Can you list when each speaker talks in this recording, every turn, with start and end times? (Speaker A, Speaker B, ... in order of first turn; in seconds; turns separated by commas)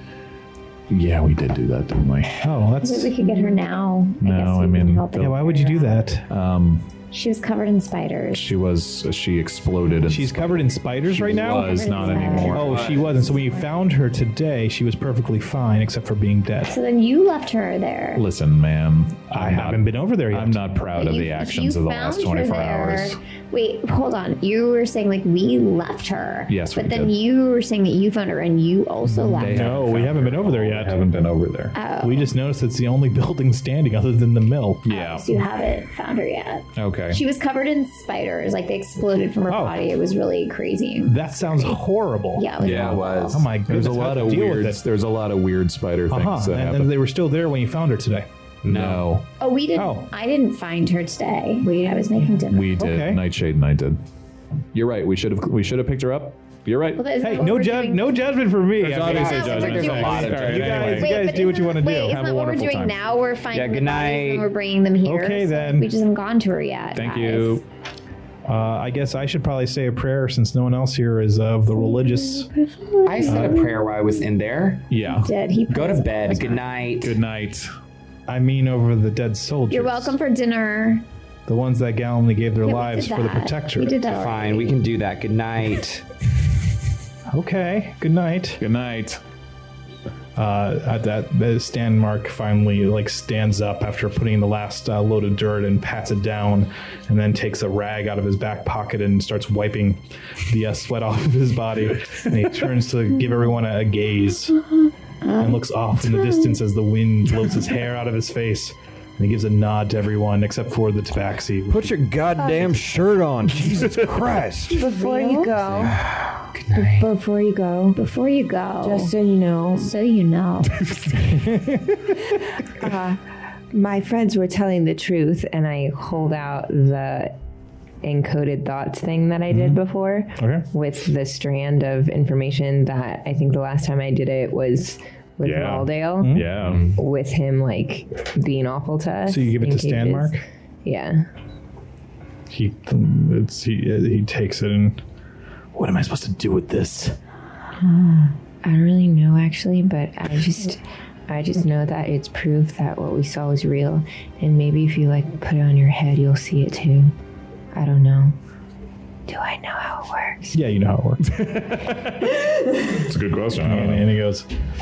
Speaker A: 0.9-2.4, Speaker B: 2.4-3.1, Speaker C: 2.8-6.0, Speaker D: 3.2-3.6, Speaker A: 4.2-5.3, Speaker B: 5.2-6.3, Speaker A: 6.3-6.8, Speaker C: 7.1-8.5, Speaker A: 8.3-13.1, Speaker B: 10.1-11.9, Speaker C: 11.3-13.7, Speaker E: 12.3-13.2, Speaker B: 12.4-16.7, Speaker C: 16.7-18.2, Speaker A: 18.1-23.2, Speaker B: 19.3-20.6, Speaker C: 20.9-29.6, Speaker A: 26.5-27.1, Speaker B: 29.1-31.0, Speaker A: 29.2-31.8, Speaker C: 31.7-32.3, Speaker B: 32.0-34.8, Speaker A: 34.8-35.3, Speaker C: 34.9-41.8, Speaker A: 36.8-37.2, Speaker B: 39.5-39.8, Speaker B: 41.0-44.8, Speaker C: 42.4-43.3, Speaker E: 42.6-43.5, Speaker A: 42.6-46.9, Speaker B: 46.1-48.2, Speaker E: 48.6-49.1, Speaker A: 48.6-49.2, Speaker C: 49.4-52.8, Speaker B: 49.7-50.1, Speaker D: 51.6-52.4, Speaker A: 52.5-54.0, Speaker B: 52.8-53.2, Speaker A: 54.7-57.1, Speaker C: 57.0-58.1, Speaker B: 57.2-62.2, Speaker A: 58.8-61.2, Speaker E: 58.9-61.0, Speaker C: 59.1-67.6, Speaker A: 62.0-63.0, Speaker E: 63.5-64.5, Speaker B: 65.0-65.9, Speaker A: 66.9-67.6, Speaker B: 68.5-72.5, Speaker C: 71.7-73.7, Speaker E: 73.0-74.9, Speaker A: 74.9-75.3, Speaker C: 75.0-76.6, Speaker E: 75.7-77.2, Speaker A: 77.0-77.7, Speaker B: 78.3-80.2, Speaker C: 79.7-81.0, Speaker B: 81.5-84.1, Speaker C: 82.6-84.8, Speaker E: 84.1-86.0, Speaker B: 87.3-88.6, Speaker A: 88.6-89.2, Speaker B: 90.3-104.6, Speaker C: 105.2-105.5, Speaker B: 105.3-112.0, Speaker C: 106.2-106.5, Speaker F: 111.7-114.8, Speaker D: 112.4-112.7, Speaker C: 114.7-115.5, Speaker D: 114.7-116.0, Speaker E: 116.5-117.1, Speaker D: 116.7-118.0, Speaker C: 117.9-119.1, Speaker D: 118.8-119.9, Speaker C: 119.8-120.8, Speaker A: 120.8-121.5, Speaker B: 121.3-122.0, Speaker D: 122.6-127.4, Speaker D: 128.0-141.3, Speaker B: 129.5-129.8, Speaker B: 130.3-130.7, Speaker A: 135.4-136.9, Speaker B: 136.2-136.8, Speaker B: 139.2-140.4, Speaker B: 142.5-145.0, Speaker B: 145.7-147.2, Speaker D: 147.8-157.1, Speaker D: 157.7-158.3, Speaker D: 159.3-160.6, Speaker B: 160.5-161.4, Speaker A: 161.2-164.1, Speaker B: 163.6-164.5